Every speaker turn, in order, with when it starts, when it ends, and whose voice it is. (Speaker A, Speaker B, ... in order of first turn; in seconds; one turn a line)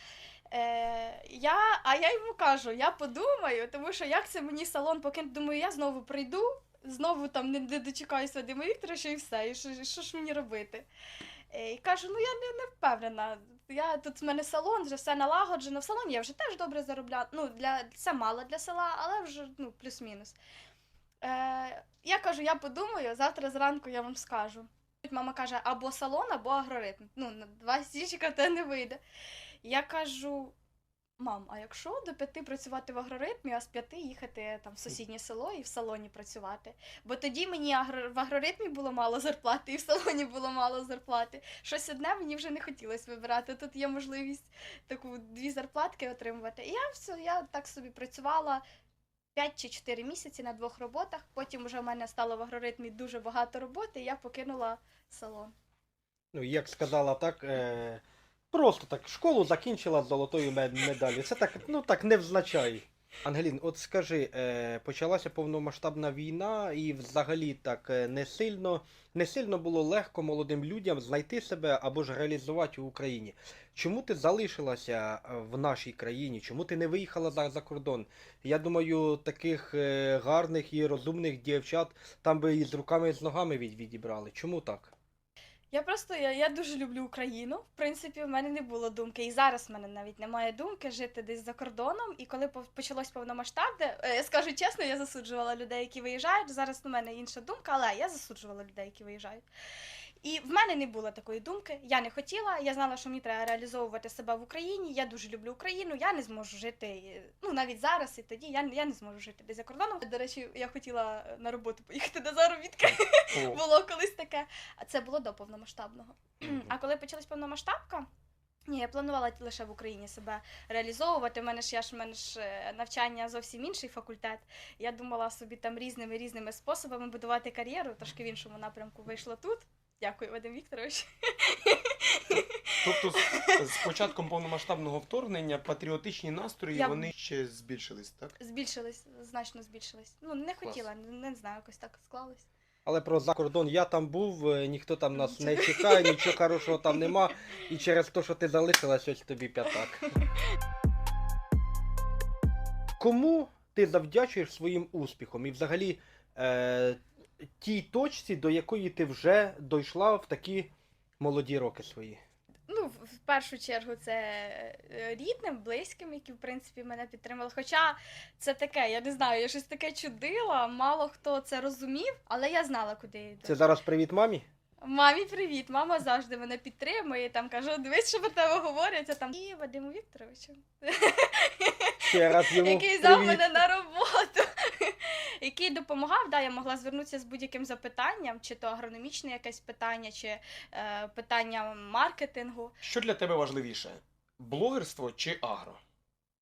Speaker A: 0.5-10.8
Speaker A: 11.5-20.4
Speaker A: 21.2-29.0
Speaker A: 29.6-30.5
Speaker A: 31.2-48.6
Speaker A: 49.3-55.5
Speaker B: 56.3-84.9
Speaker A: 85.7-99.4
Speaker A: 100.2-118.1
Speaker C: 113.3-113.6
Speaker A: 118.7-133.6
Speaker C: 132.8-138.4
Speaker A: 136.8-137.1
Speaker A: 138.4-142.5
Speaker B: 142.8-150.1
Speaker A: 145.3-146.4
Speaker B: 153.0-157.0
Speaker B: 157.6-162.2
Speaker A: 162.7-173.6
Speaker B: 173.4-174.4
Speaker A: 174.8-192.8
Speaker B: 182.0-183.6
Speaker C: 192.8-195.8